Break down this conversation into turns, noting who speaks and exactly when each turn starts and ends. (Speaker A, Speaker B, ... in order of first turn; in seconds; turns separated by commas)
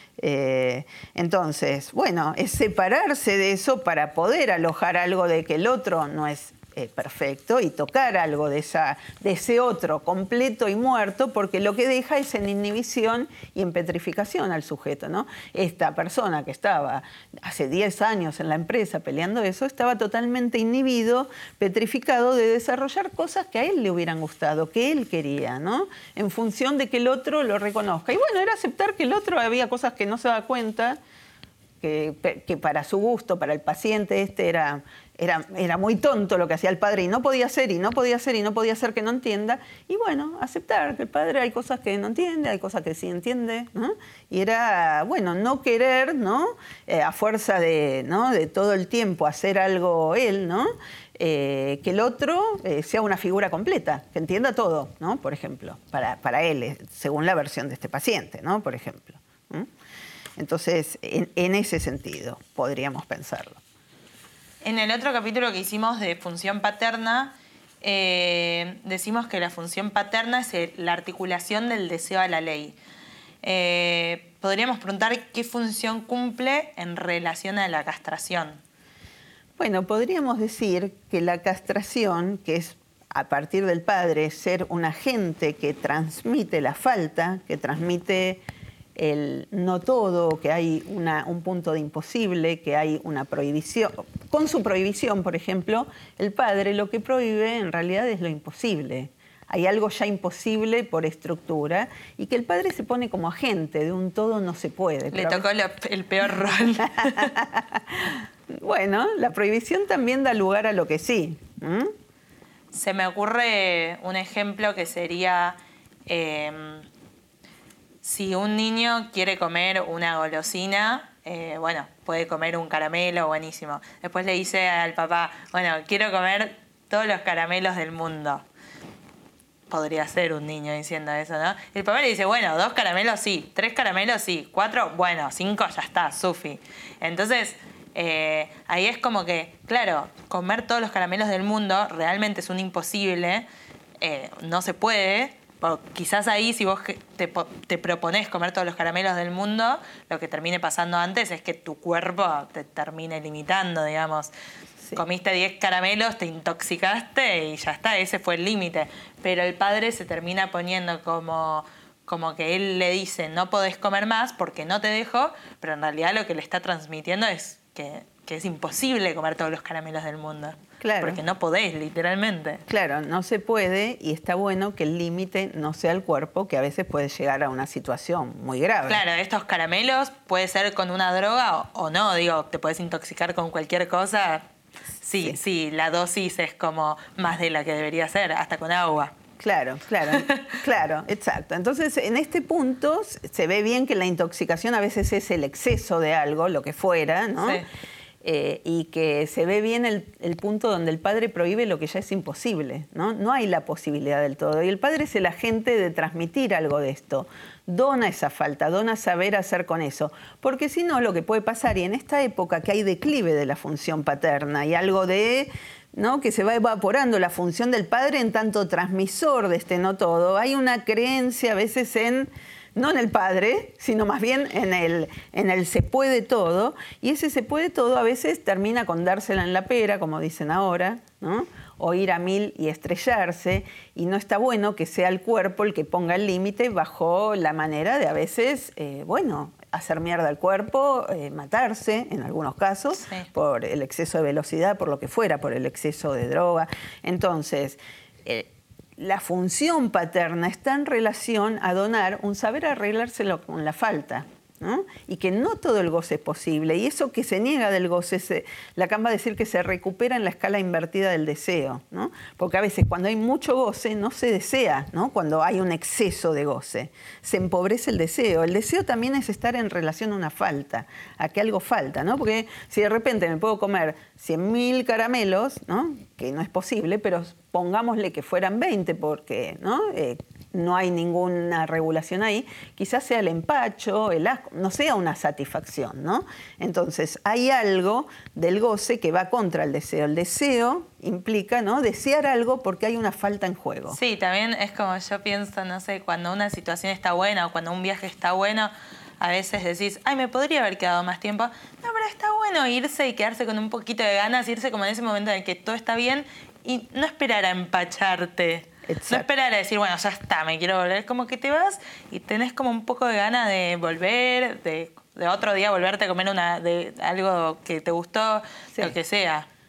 Speaker A: 0.2-31.0, Speaker A: 31.8-59.7, Speaker A: 60.4-63.6, Speaker B: 64.6-72.8, Speaker B: 73.4-78.6, Speaker A: 79.6-88.4, Speaker A: 88.9-105.5, Speaker B: 105.1-107.3, Speaker A: 106.4-111.9, Speaker B: 112.7-116.8, Speaker B: 118.0-128.4, Speaker B: 129.7-143.4, Speaker B: 144.0-154.3, Speaker B: 154.9-172.6, Speaker A: 170.8-171.2, Speaker A: 172.7-179.0, Speaker B: 178.8-184.5, Speaker B: 185.0-189.1, Speaker A: 189.4-197.6, Speaker B: 190.1-190.6, Speaker B: 197.4-197.7, Speaker A: 198.2-294.0, Speaker B: 242.9-243.3, Speaker B: 293.9-319.5, Speaker A: 308.9-309.2